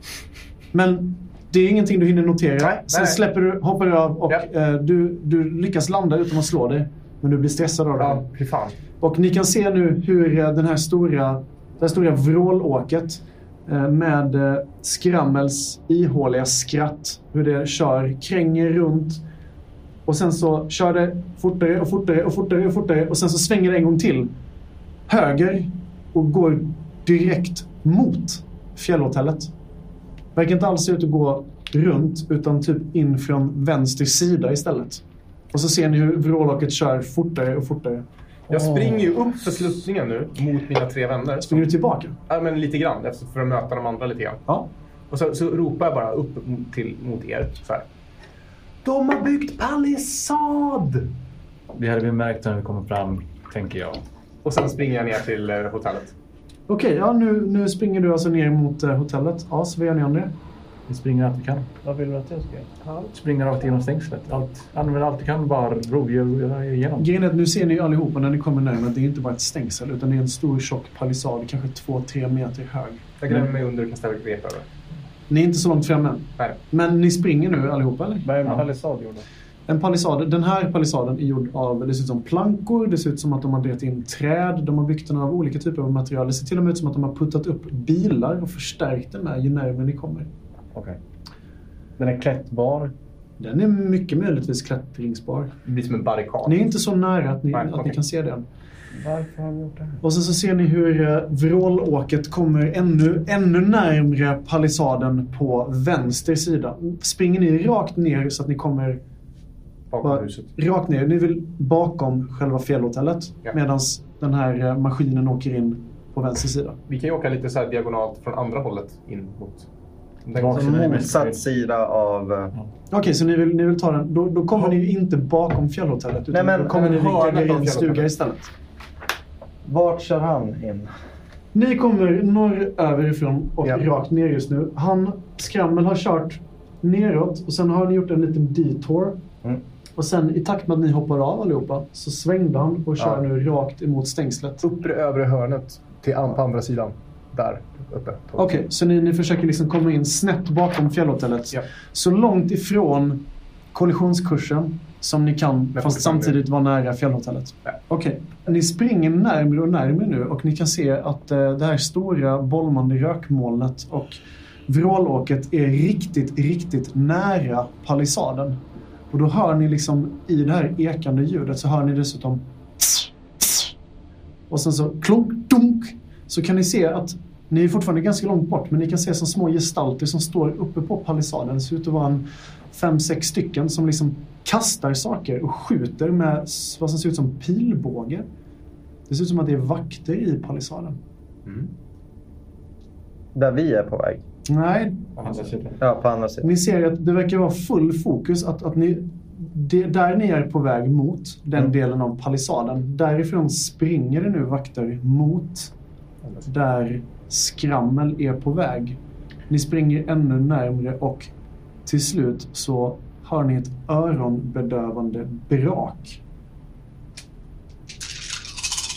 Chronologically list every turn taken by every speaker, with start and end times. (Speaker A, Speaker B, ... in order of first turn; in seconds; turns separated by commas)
Speaker A: 0.7-8.2, Speaker B: 2.6-3.2, Speaker B: 8.0-8.8, Speaker A: 9.0-19.2, Speaker A: 20.1-24.3, Speaker A: 25.1-29.5, Speaker A: 30.4-38.0, Speaker B: 38.5-41.7, Speaker A: 41.5-42.2, Speaker B: 42.3-44.4, Speaker B: 45.1-47.9, Speaker B: 48.9-51.0, Speaker C: 51.7-54.0, Speaker B: 54.4-56.1, Speaker A: 56.7-60.3, Speaker C: 60.9-61.9, Speaker D: 62.0-62.6, Speaker C: 63.0-67.1, Speaker A: 67.0-73.0, Speaker B: 73.2-74.7, Speaker A: 75.3-78.3, Speaker D: 78.2-79.3, Speaker A: 79.7-90.3, Speaker D: 92.0-92.9, Speaker A: 93.4-95.5, Speaker B: 95.7-96.7, Speaker A: 96.5-98.5, Speaker B: 97.5-98.0, Speaker D: 98.9-100.0, Speaker A: 100.0-109.0, Speaker B: 109.9-110.5, Speaker A: 110.0-116.8, Speaker B: 116.9-119.7, Speaker B: 120.3-121.0, Speaker C: 120.3-121.4, Speaker E: 120.5-122.5, Speaker A: 122.9-128.5, Speaker E: 126.3-126.8, Speaker B: 126.7-128.1, Speaker E: 129.7-130.9, Speaker A: 131.5-139.2, Speaker A: 140.0-144.7, Speaker B: 144.6-148.6, Speaker A: 148.4-168.6, Speaker B: 155.8-156.4, Speaker A: 169.1-173.7, Speaker A: 174.5-188.3, Speaker A: 189.1-191.0, Speaker E: 193.3-194.2, Speaker A: 194.5-195.1, Speaker B: 195.2-195.5, Speaker C: 195.2-195.8, Speaker E: 195.8-196.5, Speaker A: 196.4-205.7, Speaker A: 206.4-209.0, Speaker A: 209.5-211.3, Speaker A: 211.9-216.2